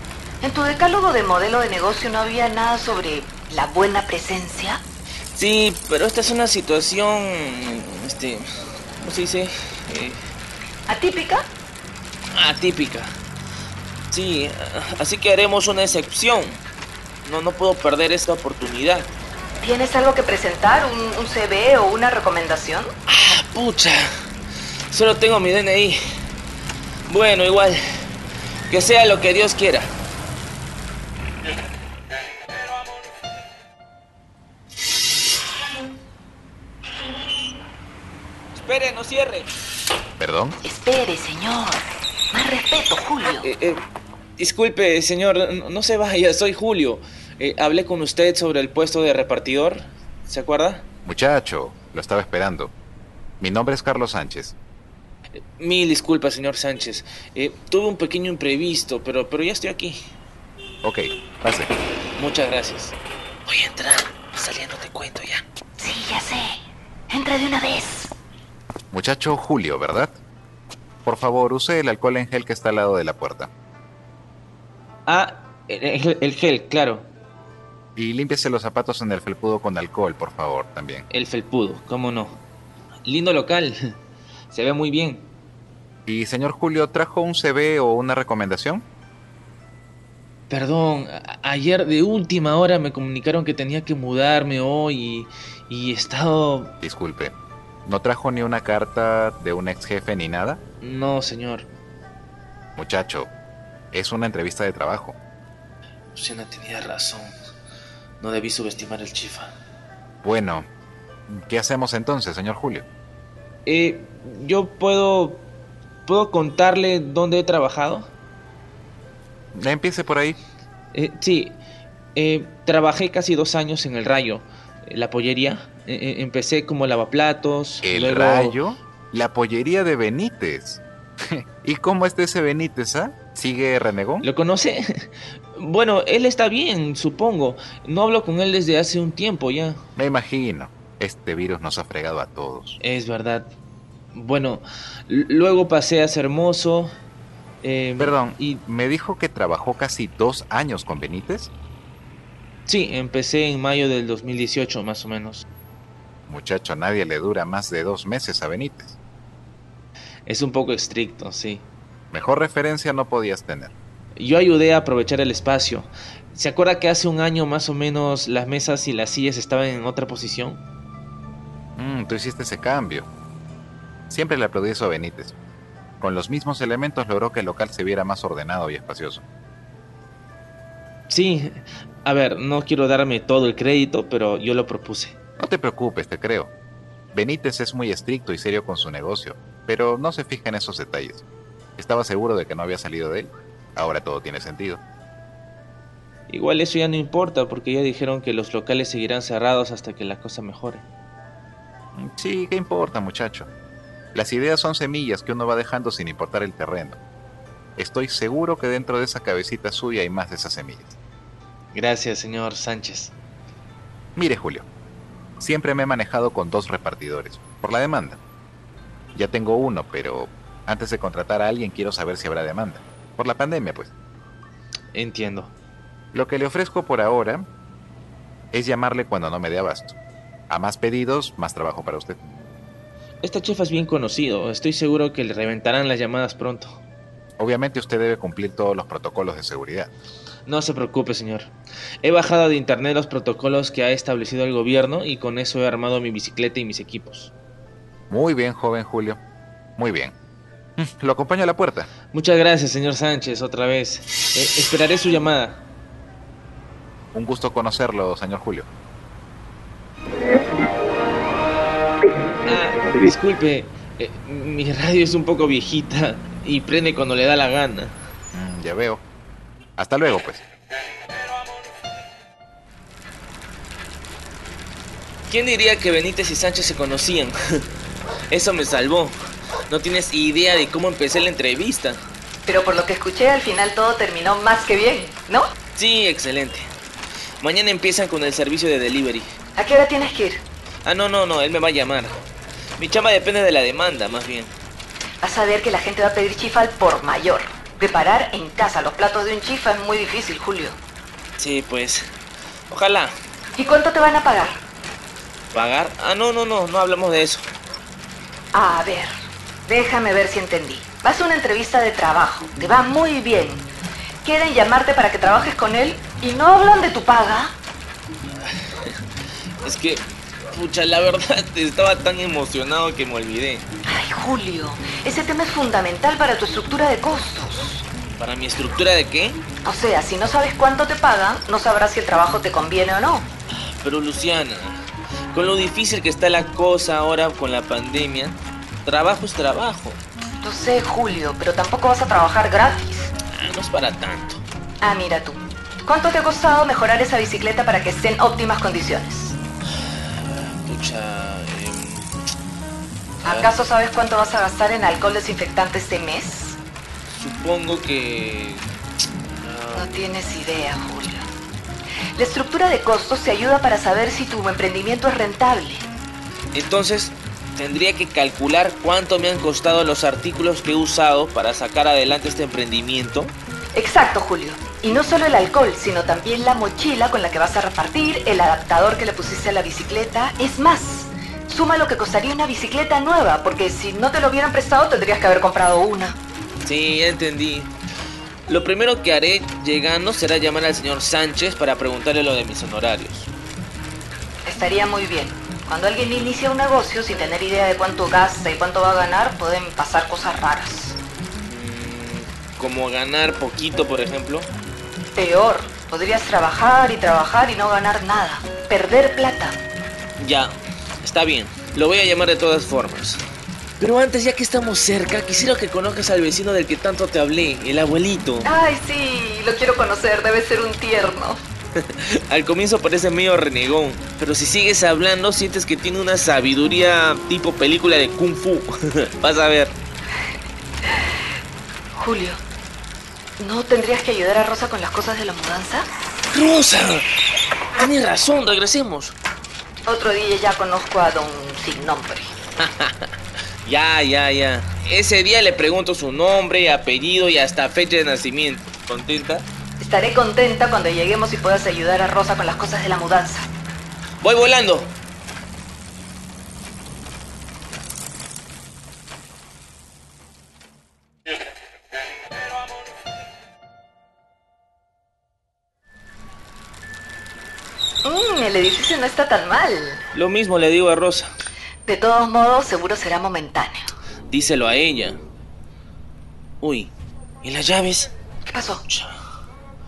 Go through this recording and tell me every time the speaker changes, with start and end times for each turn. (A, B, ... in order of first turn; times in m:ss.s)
0:00.4-0:04.8 A
0:05.3-0:08.5 B
0:09.0-0:10.2 B
0:10.9-0:11.4 A
0:12.3-0:13.2 B
0:14.1-0:16.6 B
0:17.2-0:19.1 B
0:19.6-0:22.9 A
0:23.1-0:24.1 B
0:24.9-0:26.0 B
0:27.1-0:27.8 B
0:28.7-0:29.9 B
0:38.6-0:39.5 B
0:40.2-0:40.6 C
0:40.6-0:43.5 A
0:43.4-0:43.8 B
0:44.4-0:50.8 B
0:51.0-0:52.7 C
0:53.4-0:54.6 C
0:55.4-1:00.0 B
1:00.8-1:01.7 C
1:02.2-1:05.4 B
1:05.8-1:06.6 A
1:07.1-1:08.1 A
1:08.9-1:10.2 C
1:11.0-1:13.5 C
1:15.1-1:17.1 B
1:18.0-1:21.1 C
1:21.1-1:22.4 B
1:23.1-1:24.0 B
1:24.5-1:25.3 B
1:26.1-1:28.9 C
1:30.5-1:36.8 B
1:36.8-1:37.3 C
1:37.9-1:40.6 C
1:40.8-1:41.7 B
1:42.8-1:43.3 C
1:43.9-1:45.2 C
1:46.1-1:47.3 B
1:48.2-1:49.5 B
1:50.2-1:50.7 C
1:51.3-1:52.8 C
1:53.7-1:55.5 B
1:56.1-1:58.1 B
1:59.6-2:00.4 C
2:00.9-2:01.6 B
2:02.2-2:08.6 B
2:07.8-2:14.3 C
2:14.2-2:19.8 B
2:20.0-2:22.8 C
2:22.8-2:23.5 B
2:24.1-2:26.9 B
2:27.6-2:28.6 B
2:28.0-2:31.5 C
2:32.7-2:35.4 B
2:36.3-2:39.0 C
2:40.3-2:41.6 B
2:42.1-2:43.7 C
2:44.2-2:50.6 B
2:51.8-2:53.1 C
2:54.1-2:55.4 C
2:56.0-2:59.2 C
3:01.1-3:05.2 B
3:05.4-3:06.5 C
3:07.1-3:11.2 C
3:11.8-3:14.8 C
3:16.3-3:20.8 B
3:22.0-3:23.5 C
3:24.1-3:27.0 C
3:27.8-3:31.0 C
3:31.7-3:33.1 B
3:34.2-3:34.7 C
3:35.4-3:38.2 C
3:39.2-3:43.9 C
3:44.9-3:45.5 B
3:46.1-3:47.5 C
3:48.5-3:50.0 C
3:50.5-3:52.2 C
3:53.2-3:56.8 B
3:57.4-3:59.9 C
4:00.5-4:07.3 B
4:08.1-4:09.2 C
4:09.8-4:10.1 C
4:10.8-4:11.9 C
4:12.1-4:15.6 B
4:17.1-4:18.7 C
4:22.4-4:27.9 B
4:28.3-4:29.0 C
4:29.8-4:30.4 C
4:35.3-4:37.6 B
4:38.3-4:39.2 B
4:39.7-4:42.0 B
4:42.5-4:45.5 A
4:45.8-4:46.7 B
4:47.4-4:49.3 B
4:49.6-4:50.4 A
4:50.8-4:52.2 B
4:52.8-4:54.5 B
4:55.2-5:00.8 A
5:01.4-5:02.1 B
5:02.7-5:03.1 B
5:03.6-5:04.6 A
5:05.5-5:07.5 B
5:08.5-5:09.1 A
5:09.7-5:13.7 A
5:14.2-5:17.6 A
5:18.4-5:19.0 B
5:19.6-5:23.7 B
5:23.9-5:27.9 A
5:28.2-5:29.4 B
5:29.6-5:33.3 A
5:33.5-5:34.8 B
5:35.3-5:40.0 B
5:40.4-5:43.1 A
5:43.3-5:44.4 B
5:44.8-5:49.4 A
5:49.9-5:52.2 B
5:53.2-5:53.5 B
5:53.2-5:56.6 A
5:57.1-5:58.7 B
5:59.3-5:59.9 B
5:59.8-6:01.3 A
6:02.2-6:05.9 A
6:06.5-6:13.3 B
6:13.8-6:26.2 A
6:26.6-6:27.7 B
6:28.5-6:33.3 B
6:34.4-6:41.0 A
6:41.4-6:44.5 B
6:45.2-6:49.6 A
6:50.2-6:53.2 B
6:53.8-6:58.5 B
6:58.4-7:01.4 A
7:01.8-7:09.8 B
7:12.0-7:12.4 A
7:13.4-7:15.9 A
7:16.3-7:17.1 B
7:17.8-7:19.2 B
7:19.9-7:22.3 A
7:22.6-7:23.1 B
7:23.6-7:29.5 B
7:29.8-7:33.5 A
7:34.2-7:35.0 B
7:48.0-7:50.0 A
7:50.1-7:51.3 B
7:51.9-7:53.9 A
7:54.3-7:55.2 B
7:56.6-7:58.1 B
7:58.5-7:58.8 A
7:58.9-7:59.2 B